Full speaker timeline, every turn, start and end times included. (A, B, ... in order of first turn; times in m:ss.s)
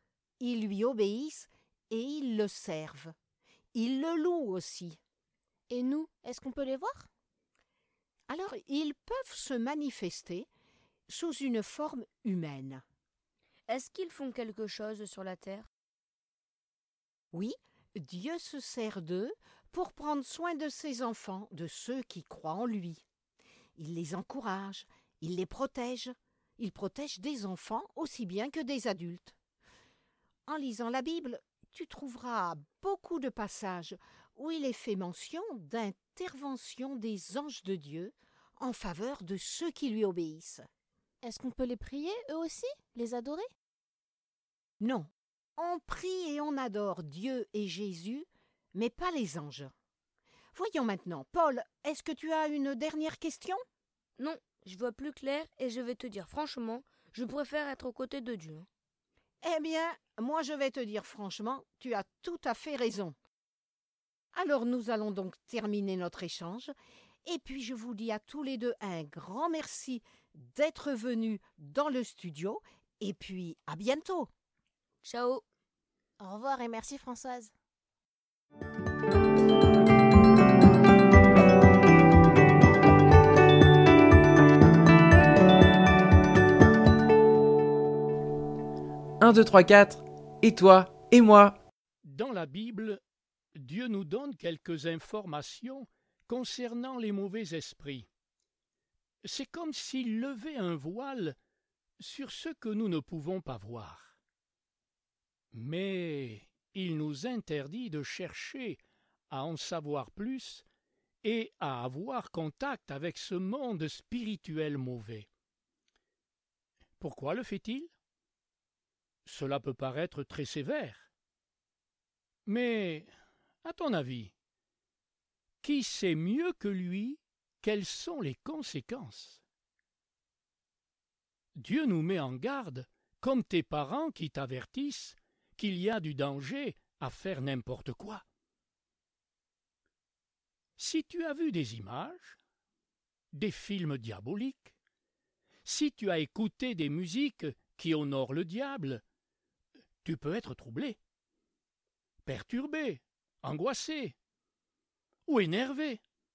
0:00.4-0:03.2 A
0:03.7-0:05.0 A
0:05.7-0:07.1 B
0:08.3-0:10.5 A
0:11.1-0:12.8 A
0:13.7-0:15.7 C
0:17.3-0:23.0 A
0:23.8-0:29.4 A
0:30.5-0:40.6 A
0:41.2-0:43.5 B
0:44.8-0:49.7 A
0:50.5-0:53.6 A
0:54.2-0:58.7 C
0:59.4-1:03.2 A
1:04.4-1:06.7 A
1:07.2-1:14.3 A
1:15.0-1:15.4 C
1:16.2-1:17.5 B
1:29.2-1:31.6 D
1:32.0-1:33.0 E
1:33.6-1:38.1 E
1:39.2-1:41.4 E
1:42.0-1:44.2 E
1:45.5-1:50.6 E
1:51.2-1:55.3 E
1:57.0-1:57.9 E
1:59.3-2:01.1 E
2:02.5-2:03.1 E
2:03.6-2:04.3 E
2:05.6-2:09.4 E
2:11.6-2:18.2 E
2:20.8-2:22.4 E
2:23.3-2:24.7 E
2:25.6-2:29.0 E
2:30.0-2:31.0 E
2:32.3-2:34.2 E
2:35.3-2:36.0 E